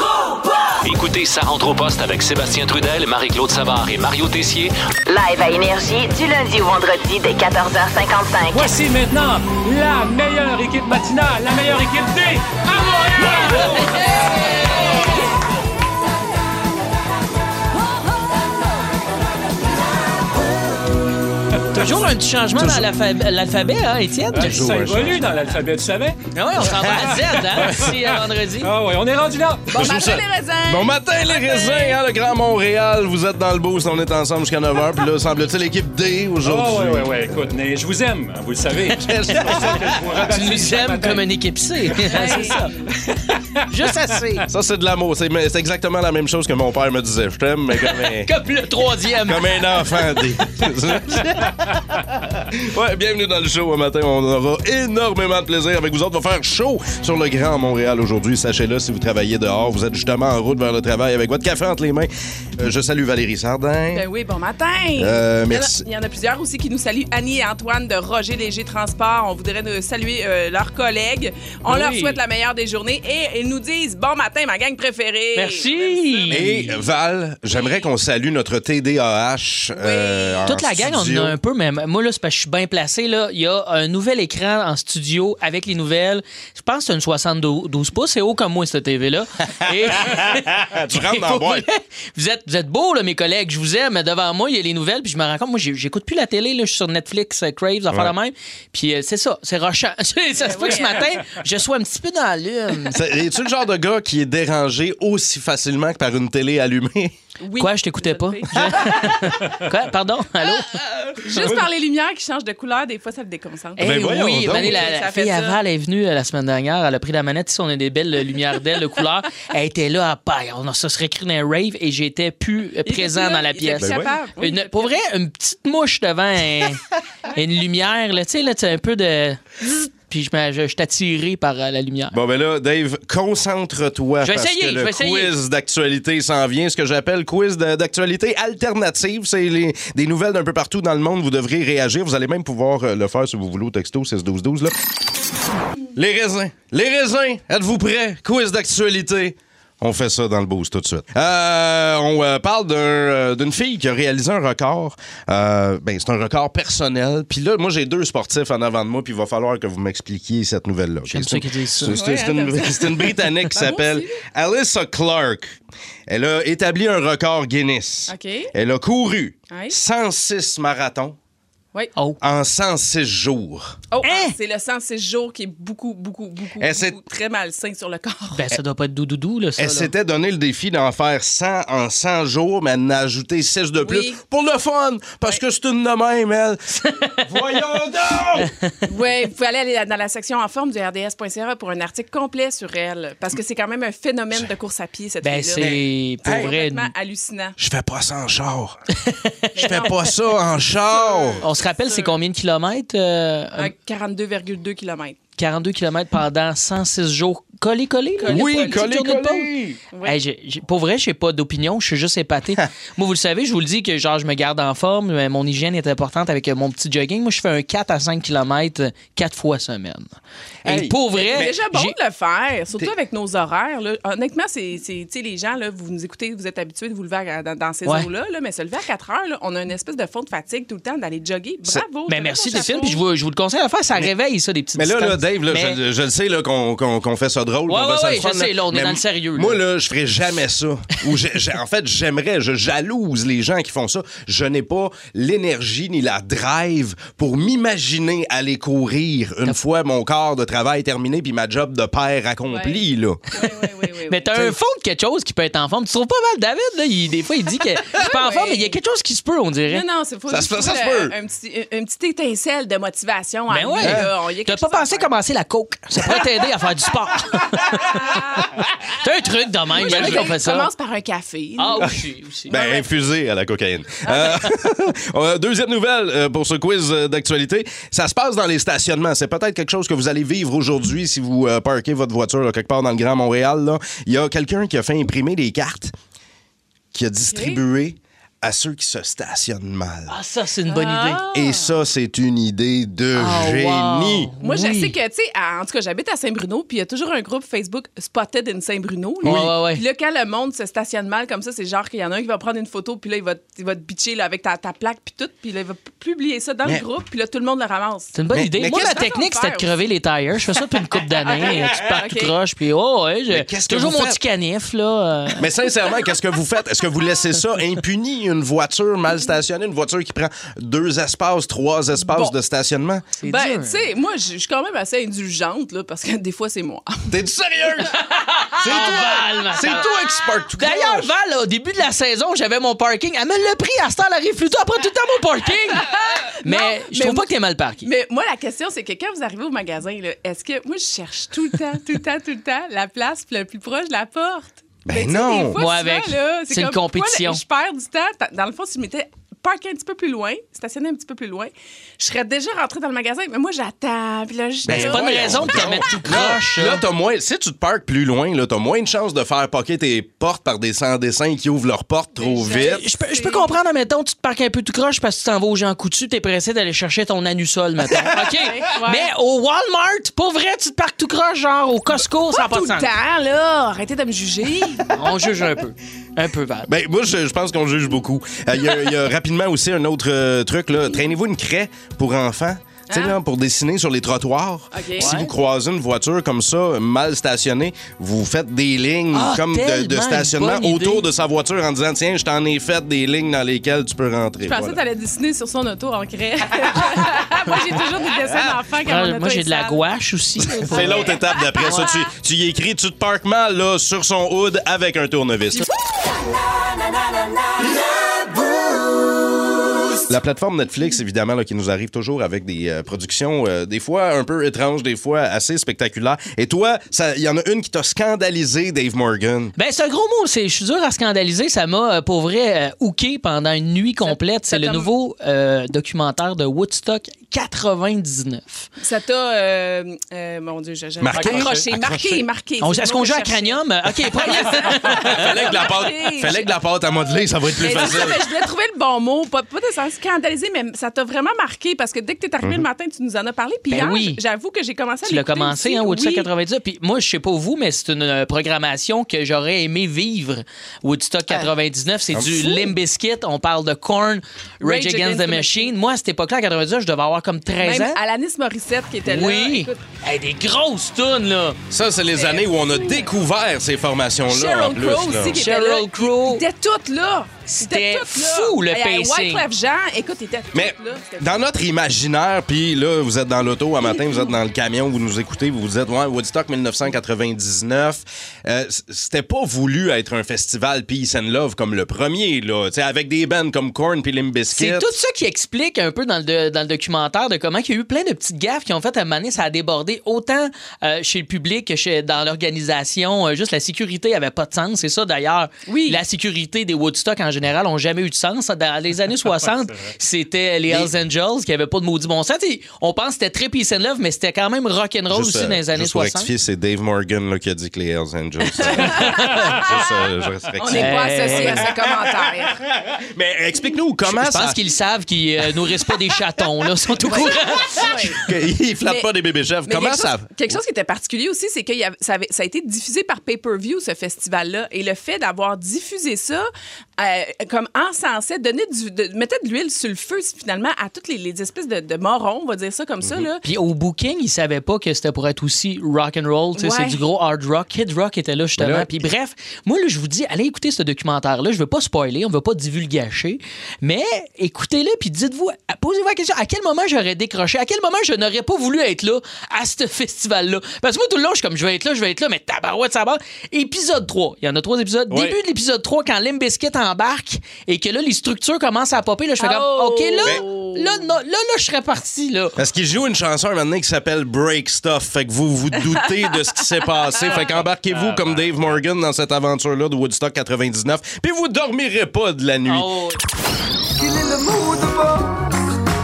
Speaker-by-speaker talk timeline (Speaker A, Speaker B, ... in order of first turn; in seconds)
Speaker A: 0.8-4.7
Speaker B: 5.1-8.7
Speaker C: 8.5-14.2, 24.4-26.2, 26.8-28.0, 28.6-29.7, 36.4-41.2, 567.4-568.8
Speaker D: 21.7-24.7, 26.3-28.7, 40.2-42.7, 43.7-44.5, 47.9-49.6, 71.7-72.2, 75.3-76.8, 80.5-103.0, 107.6-110.8, 113.8-126.8, 127.3-132.2, 134.2-135.3, 161.1-162.0, 174.0-174.3, 178.3-179.9, 186.9-187.2, 188.4-188.7, 195.2-196.9, 199.1-199.5, 201.4-203.7, 205.4-209.5, 210.0-220.1, 220.6-221.9, 232.1-235.8, 237.7-239.6, 254.1-259.8, 263.5-268.1, 269.0-270.7, 271.6-272.5, 290.1-291.2, 293.1-294.9, 299.2-299.8, 308.1-315.4, 323.2-323.8, 327.9-329.9, 330.5-337.9, 345.6-347.4, 354.7-356.8, 362.5-372.9, 374.9-376.7, 385.0-385.3, 389.1-391.0, 398.8-401.9, 419.6-428.7, 431.2-431.5, 432.6-435.2, 443.7-444.2, 445.1-458.0, 459.1-461.6, 465.3-466.4, 467.4-469.4, 484.5-506.3, 508.6-509.5, 510.7-511.7, 514.0-518.2, 533.4-562.6, 572.7-573.2
Speaker E: 22.6-22.9, 24.3-25.2, 26.6-27.6, 29.7-37.1, 38.9-40.3, 44.5-48.3, 49.2-64.0, 65.0-65.8, 76.3-81.4, 89.7-91.7, 102.9-107.1, 110.8-111.6, 113.8-114.9, 123.8-124.1, 132.1-144.7, 145.9-165.6, 166.1-171.2, 172.2-173.7, 176.6-176.9, 179.6-188.5, 195.6-196.5, 197.6-198.8, 199.6-201.4, 208.3-209.8, 220.6-221.6, 234.7-253.2, 260.3-261.1, 263.8-264.1, 269.8-270.3, 272.5-285.9, 286.9-290.1, 291.3-294.3, 299.2-299.5, 308.3-309.0, 311.3-311.9, 313.3-314.2, 315.4-323.1, 327.1-328.0, 328.5-331.1, 344.9-345.6, 354.6-362.8, 376.7-394.8, 400.6-405.7, 410.1-419.5, 431.0-432.2, 434.7-438.2, 452.1-452.7, 461.7-465.4, 470.5-484.9, 505.1-511.9, 512.7-514.6, 518.1-520.5, 533.0-533.3, 538.6-538.9, 555.1-555.4, 562.6-572.9
Speaker F: 29.7-32.0, 42.1-42.9, 63.9-76.4, 77.5-77.9, 79.7-80.4, 100.4-101.1, 107.4-109.1, 111.2-115.6, 122.8-125.0, 161.9-164.2, 168.1-168.5, 169.5-169.8, 173.9-178.4, 183.8-184.2, 188.9-195.7, 196.2-197.6, 199.6-202.1, 203.6-205.2, 208.2-208.8, 221.1-233.0, 252.5-252.8, 253.3-254.3, 258.0-258.8, 259.7-265.1, 267.7-268.5, 269.8-271.9, 272.5-272.9, 274.1-274.4, 287.3-287.6, 290.6-291.7, 294.4-309.7, 311.9-312.3, 322.0-322.3, 323.2-327.1, 335.7-337.3, 337.8-355.9, 362.2-363.5, 368.4-369.1, 372.0-374.9, 382.9-383.2, 384.7-385.1, 394.4-399.8, 400.7-401.0, 424.0-424.9, 428.8-436.5, 437.6-446.3, 454.6-455.7, 457.6-459.8, 462.1-463.1, 464.3-471.4, 495.7-496.0, 510.6-512.6, 517.0-518.2, 519.7-533.4, 536.6-537.0, 559.4-561.0